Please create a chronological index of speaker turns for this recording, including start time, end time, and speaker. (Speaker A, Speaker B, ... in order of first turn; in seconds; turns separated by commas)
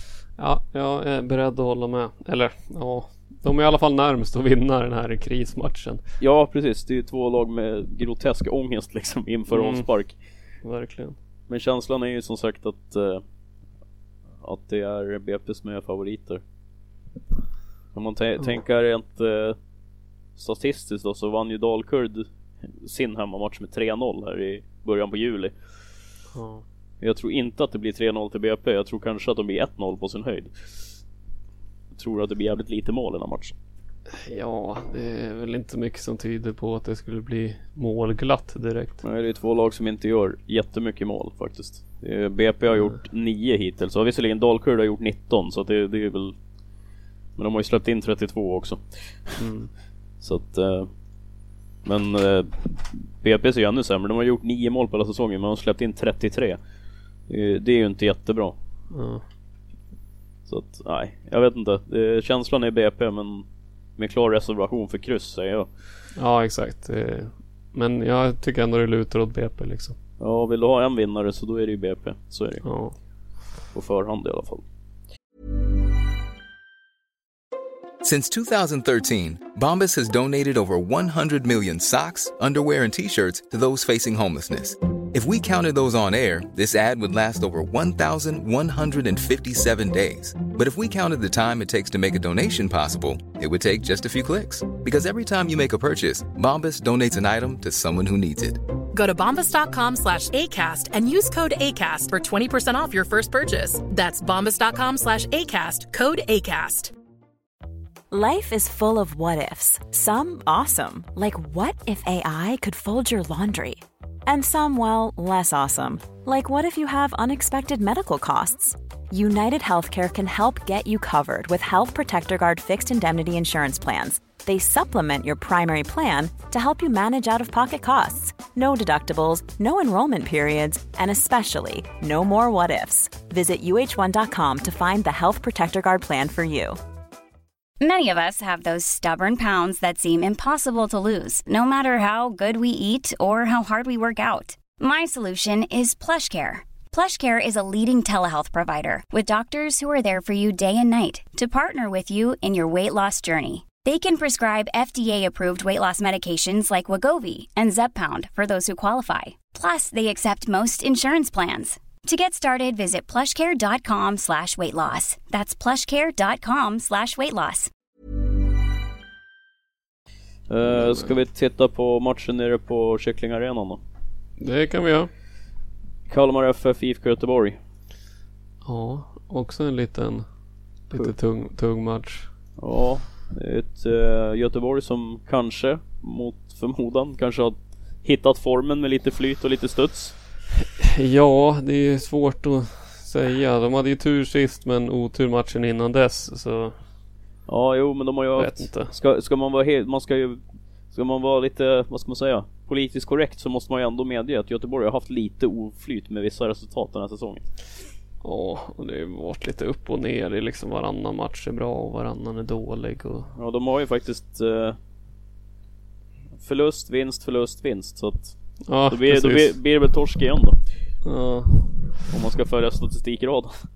Speaker A: 0.4-6.0, Speaker B: 6.2-10.2, Speaker A: 9.5-9.9, Speaker A: 10.6-11.2, Speaker B: 11.5-13.2, Speaker B: 14.4-16.4, Speaker B: 17.9-19.6, Speaker B: 20.4-25.6, Speaker A: 26.3-26.6, Speaker B: 27.0-30.5, Speaker B: 31.9-33.5, Speaker A: 34.1-39.0, Speaker B: 39.0-46.4, Speaker B: 47.4-49.4, Speaker A: 49.4-49.7, Speaker B: 50.2-50.9, Speaker B: 51.8-56.6, Speaker B: 57.3-58.6, Speaker A: 58.9-59.2, Speaker B: 60.5-63.5, Speaker B: 64.0-65.7, Speaker A: 66.2-70.0, Speaker B: 70.2-72.7, Speaker A: 72.6-73.0, Speaker B: 73.7-74.6, Speaker C: 78.0-98.6, Speaker D: 98.9-106.9, Speaker E: 108.1-136.8, Speaker F: 137.8-167.7, Speaker B: 170.5-173.8, Speaker A: 170.8-171.1, Speaker A: 174.4-175.1, Speaker B: 176.1-177.6, Speaker A: 178.6-180.3, Speaker A: 180.9-182.3, Speaker B: 182.6-190.2, Speaker A: 190.8-196.8, Speaker B: 197.5-200.4, Speaker A: 198.4-198.9, Speaker B: 200.9-207.5, Speaker A: 208.2-213.3, Speaker B: 213.3-214.8, Speaker B: 216.4-220.6, Speaker A: 218.7-219.6, Speaker A: 221.0-222.0, Speaker B: 222.1-223.6